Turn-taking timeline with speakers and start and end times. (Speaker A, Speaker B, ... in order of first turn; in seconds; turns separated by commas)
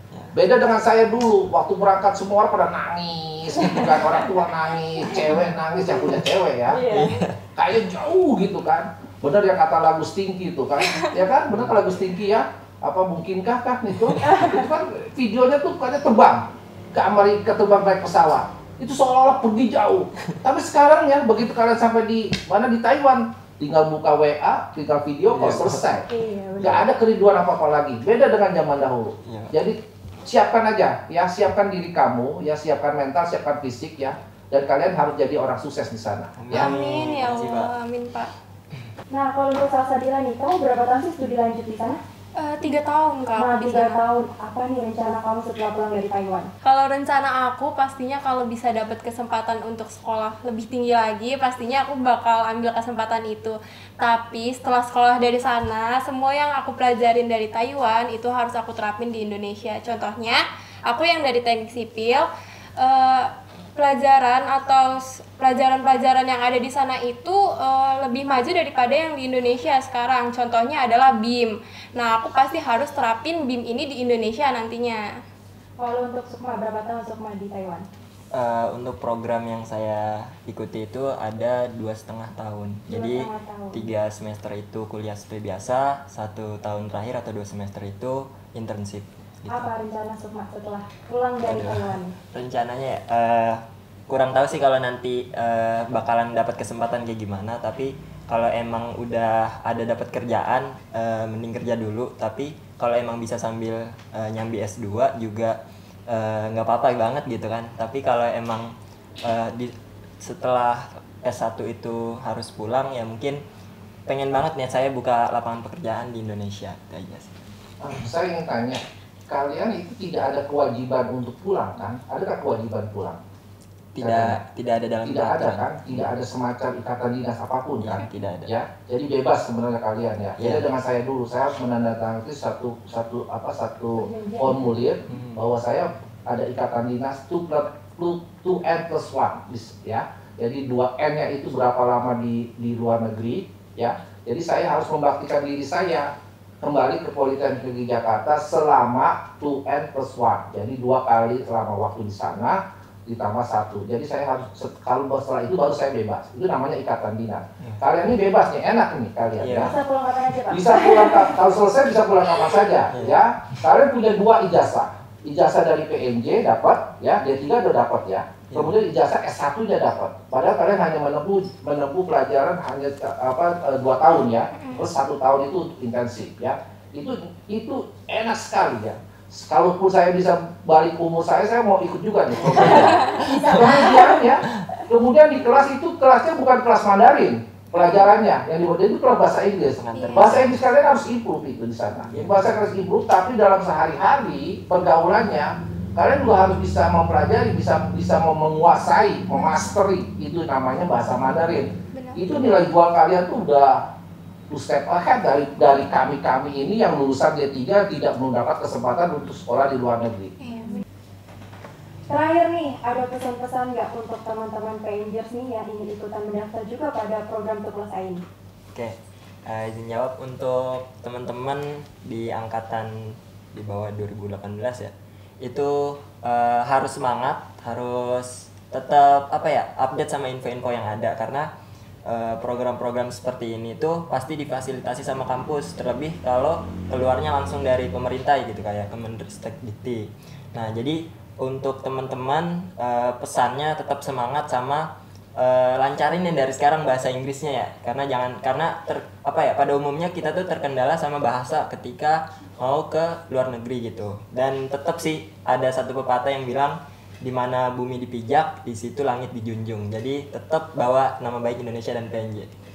Speaker A: 0.3-6.9, Speaker B: 6.7-7.2, Speaker C: 6.9-7.4, Speaker A: 7.6-26.1, Speaker C: 14.0-14.3, Speaker B: 14.2-14.7, Speaker C: 25.3-26.0, Speaker B: 26.0-26.9, Speaker A: 26.6-36.7, Speaker C: 29.2-29.5, Speaker C: 36.4-37.7, Speaker D: 36.5-38.3, Speaker B: 39.1-42.0, Speaker D: 42.4-44.0, Speaker B: 43.4-46.5, Speaker D: 46.6-75.2, Speaker B: 75.8-77.9, Speaker C: 78.3-89.7, Speaker B: 82.9-83.8, Speaker B: 89.5-92.1, Speaker C: 91.5-105.6, Speaker C: 106.1-113.4, Speaker C: 114.1-117.3, Speaker A: 117.8-123.2, Speaker C: 123.9-126.1, Speaker A: 124.0-124.4, Speaker A: 125.0-159.7, Speaker C: 127.8-128.5, Speaker C: 130.4-130.7, Speaker B: 133.9-134.7, Speaker C: 135.1-135.4, Speaker C: 159.4-159.7, Speaker B: 159.6-161.4, Speaker A: 160.5-203.8, Speaker C: 162.9-163.2, Speaker C: 168.5-168.8, Speaker C: 182.5-183.7, Speaker B: 182.5-184.3, Speaker D: 182.8-183.3, Speaker C: 189.8-190.6, Speaker D: 189.9-190.4, Speaker C: 192.1-192.5, Speaker D: 201.9-202.2, Speaker A: 204.5-210.3, Speaker D: 210.4-210.8, Speaker B: 212.1-218.2, Speaker C: 218.7-231.5, Speaker C: 232.1-262.5